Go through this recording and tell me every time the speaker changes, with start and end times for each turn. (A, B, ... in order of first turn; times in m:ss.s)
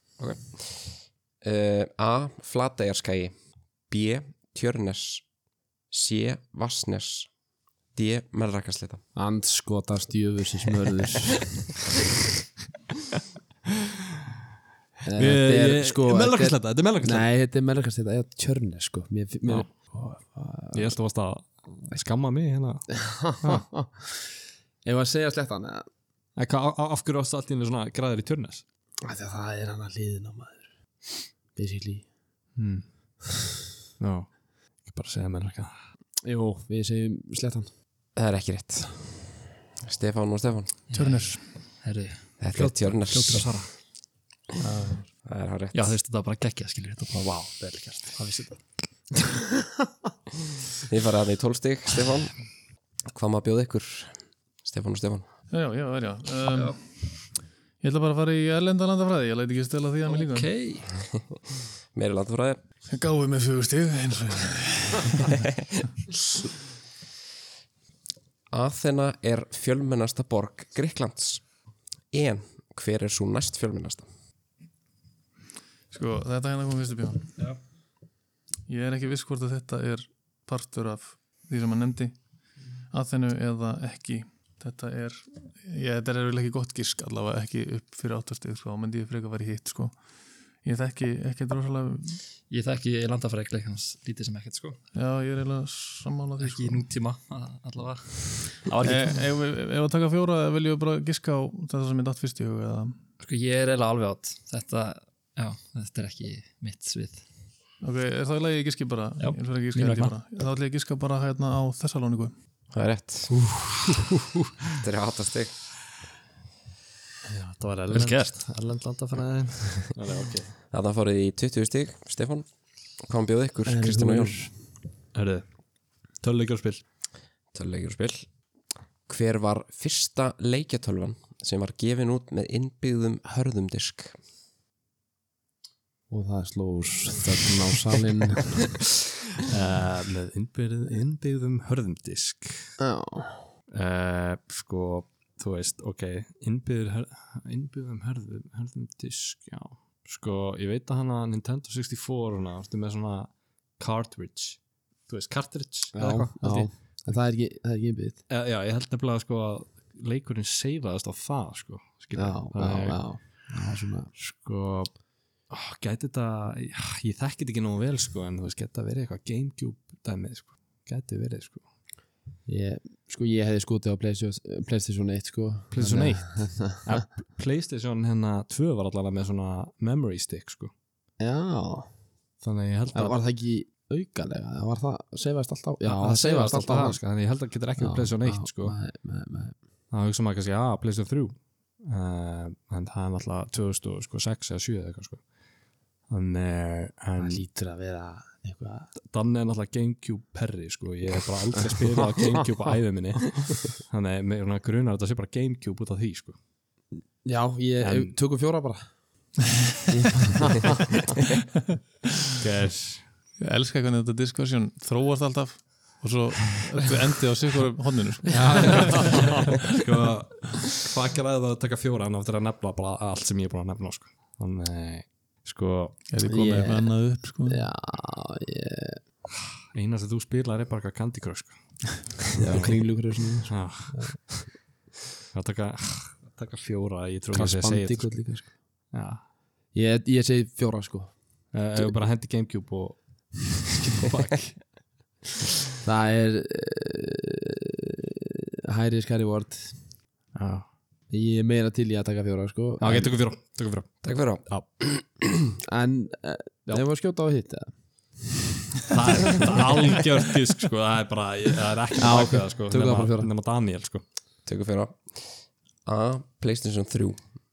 0:00.2-0:03.3 A
0:03.9-0:05.2 A
0:05.9-0:07.3 A
0:07.9-0:09.0 A
0:09.2-0:11.6 B
0:15.0-0:21.0 B
0:15.2-0:17.3 C
0:20.7-0:23.6 C
0:23.0-0:24.2 B
0:24.8-0:25.9 B
0:26.4-0:28.6 C
0:29.0-0:30.7 B
0:31.5-0:32.1 B
0:32.6-0:32.9 C
0:34.0-0:35.7 C
0:36.2-0:37.7 B
0:38.2-0:40.8 A
0:40.9-0:43.7 D
0:40.9-0:41.4 E
0:42.4-0:43.5 A
0:44.6-0:45.0 E
0:45.3-0:45.9 A
0:45.7-0:48.6 D
0:50.9-0:52.4 A
0:53.1-0:55.3 A
0:55.5-0:56.8 E
0:56.5-0:56.8 D
0:57.8-1:00.5 E
1:00.1-1:00.9 D
1:01.9-1:02.6 A
1:02.9-1:05.4 E
1:08.5-1:11.5 A
1:12.1-1:14.1 A
1:15.9-1:17.3 E
1:18.7-1:22.2 E
1:22.9-1:30.0 E
1:30.6-1:32.2 E
1:32.5-1:34.8 D
1:34.9-1:36.8 E
1:36.4-1:39.3 D
1:38.8-1:43.0 E
1:43.2-1:47.2 D
1:47.8-1:52.3 E
1:49.2-1:50.2 D
1:52.7-1:53.5 A
1:54.8-1:55.6 A
1:57.3-2:00.5 C
1:57.9-1:58.4 D
2:00.7-2:04.4 A
2:03.7-2:04.7 B
2:05.1-2:05.4 C
2:06.2-2:06.8 C
2:07.5-2:08.3 A
2:09.1-2:14.2 A
2:16.1-2:18.7 B
2:19.5-2:22.8 C
2:22.8-2:23.5 B
2:23.7-2:37.2 C
2:35.9-2:38.2 B
2:38.3-2:43.5 C
2:42.2-2:44.1 B
2:44.1-2:51.6 C
2:52.5-2:57.0 B
2:55.7-3:00.7 C
3:01.2-3:02.0 B
3:02.4-3:03.2 C
3:02.9-3:07.0 B
3:05.8-3:08.8 C
3:07.8-3:09.6 B
3:09.9-3:15.3 C
3:16.0-3:17.4 C
3:17.2-3:18.9 B
3:19.0-3:26.4 C
3:27.2-3:29.0 B
3:27.8-3:28.2 C
3:29.9-3:30.9 B
3:32.4-3:33.1 C
3:33.4-3:39.6 E
3:38.3-3:46.0 C
3:46.1-3:47.6 E
3:46.2-3:49.0 B
3:49.7-3:54.4 C
3:52.4-3:54.3 B
3:55.3-3:58.3 C
3:57.3-3:58.6 B
3:58.9-3:59.2 C
3:59.7-4:02.0 B
4:01.5-4:04.7 C
4:05.8-4:07.8 B
4:08.7-4:09.9 B
4:10.3-4:10.7 C
4:11.1-4:13.1 B
4:12.8-4:14.6 C
4:14.0-4:15.2 A
4:15.7-4:18.4 B
4:18.9-4:24.0 C
4:22.0-4:23.3 B
4:24.5-4:27.2 A